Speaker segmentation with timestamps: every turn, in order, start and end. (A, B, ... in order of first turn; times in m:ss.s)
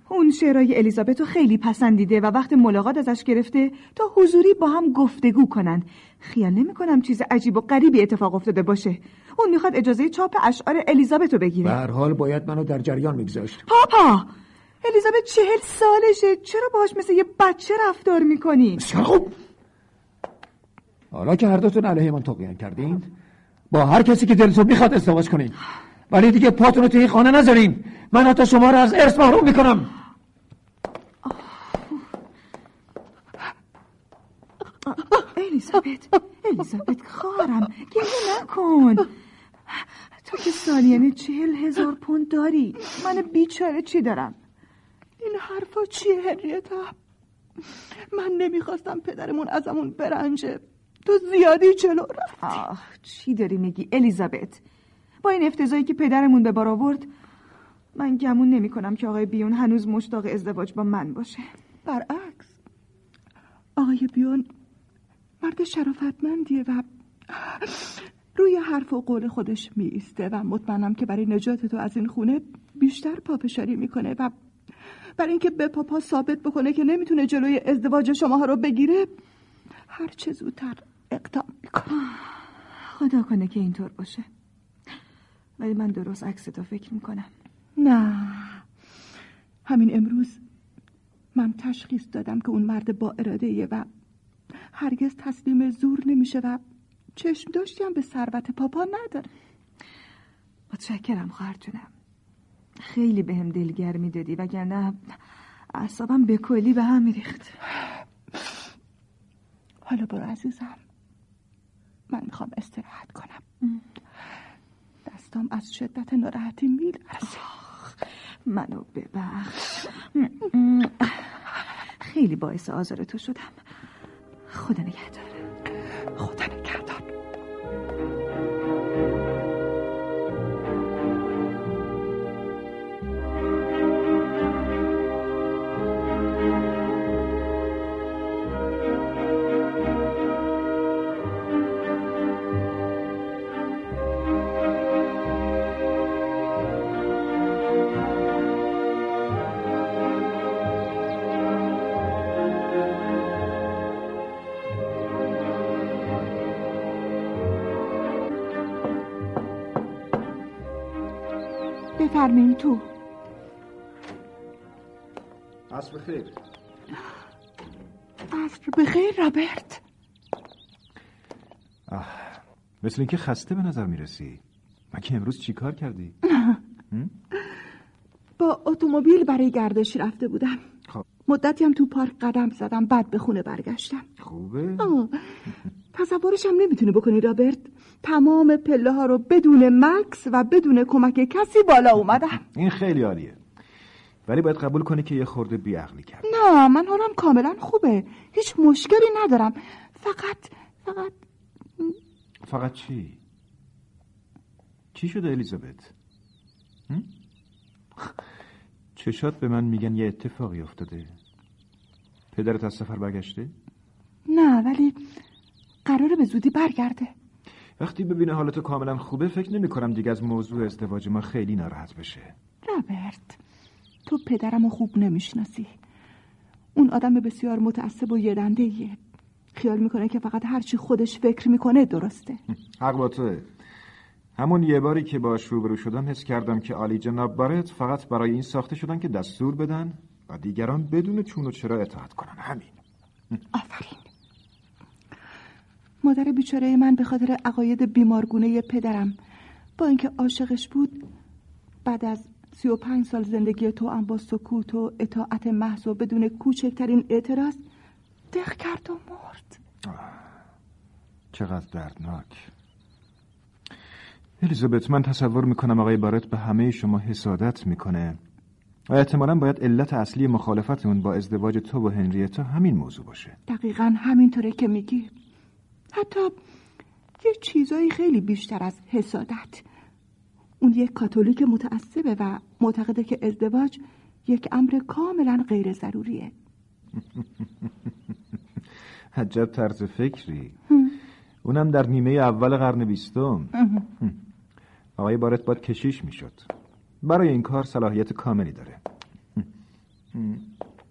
0:00.1-0:11.8 A
0:11.6-0:13.6 B
0:13.7-0:14.3 A
0:14.8-0:18.8 A
0:18.8-0:19.3 B
0:21.1-0:23.1 B
0:23.7-0:25.6 B
0:26.1-0:29.9 B
0:35.2-0:39.1 A
0:39.7-0:44.4 A
0:45.2-0:47.0 C
0:48.1-0:52.4 C
0:52.4-0:54.6 A
0:55.2-0:57.1 A
0:57.9-1:01.4 A
1:01.8-1:02.5 C
1:03.8-1:04.5 C
1:05.4-1:14.3 C
1:15.2-1:19.2 C
1:19.9-1:22.0 C
1:22.9-1:24.2 A
1:25.6-1:27.3 A
1:27.8-1:28.6 C
1:29.6-1:30.4 C
1:31.3-1:33.9 C
1:34.7-1:36.6 C
1:37.2-1:39.3 C
1:40.7-1:41.9 A
1:42.8-1:45.1 A
1:45.7-1:47.5 A
1:49.8-1:50.8 C
1:52.1-1:53.4 C
1:55.1-1:57.4 C
1:57.5-1:57.9 A
1:58.4-2:01.2 A
2:02.0-2:03.6 A
2:04.5-2:05.4 A
2:06.2-2:07.1 C
2:42.0-2:42.9 C
2:45.7-2:46.4 D
2:48.3-2:49.8 C
2:51.9-2:56.2 D
2:56.3-2:56.6 C
2:58.4-3:00.6 C
3:01.2-3:04.1 C
3:04.2-3:04.9 D
3:04.8-3:05.2 C
3:05.9-3:12.4 C
3:12.5-3:13.4 D
3:14.2-3:16.3 D
3:16.2-3:21.2 C
3:22.4-3:23.2 D
3:24.9-3:25.9 D
3:29.0-3:31.1 D
3:32.3-3:33.5 D
3:34.3-3:35.0 C
3:35.8-3:37.1 C
3:37.8-3:42.3 D
3:42.6-3:43.4 C
3:44.0-3:45.7 C
3:46.7-3:49.0 C
3:49.5-3:52.4 C
3:52.8-3:53.5 D
3:54.4-4:02.8 D
4:03.5-4:04.1 C
4:06.0-4:09.1 C
4:09.8-4:11.1 C
4:11.8-4:17.6 C
4:18.3-4:19.6 C
4:19.8-4:20.2 D
4:21.3-4:22.5 D
4:24.4-4:28.2 D
4:28.9-4:33.4 D
4:33.5-4:35.1 C
4:35.9-4:36.4 C
4:37.2-4:39.6 C
4:40.6-4:46.3 C
4:49.1-4:50.6 D
4:51.4-4:54.2 D
4:55.0-4:56.5 D
4:57.0-4:58.8 D
5:00.1-5:00.5 D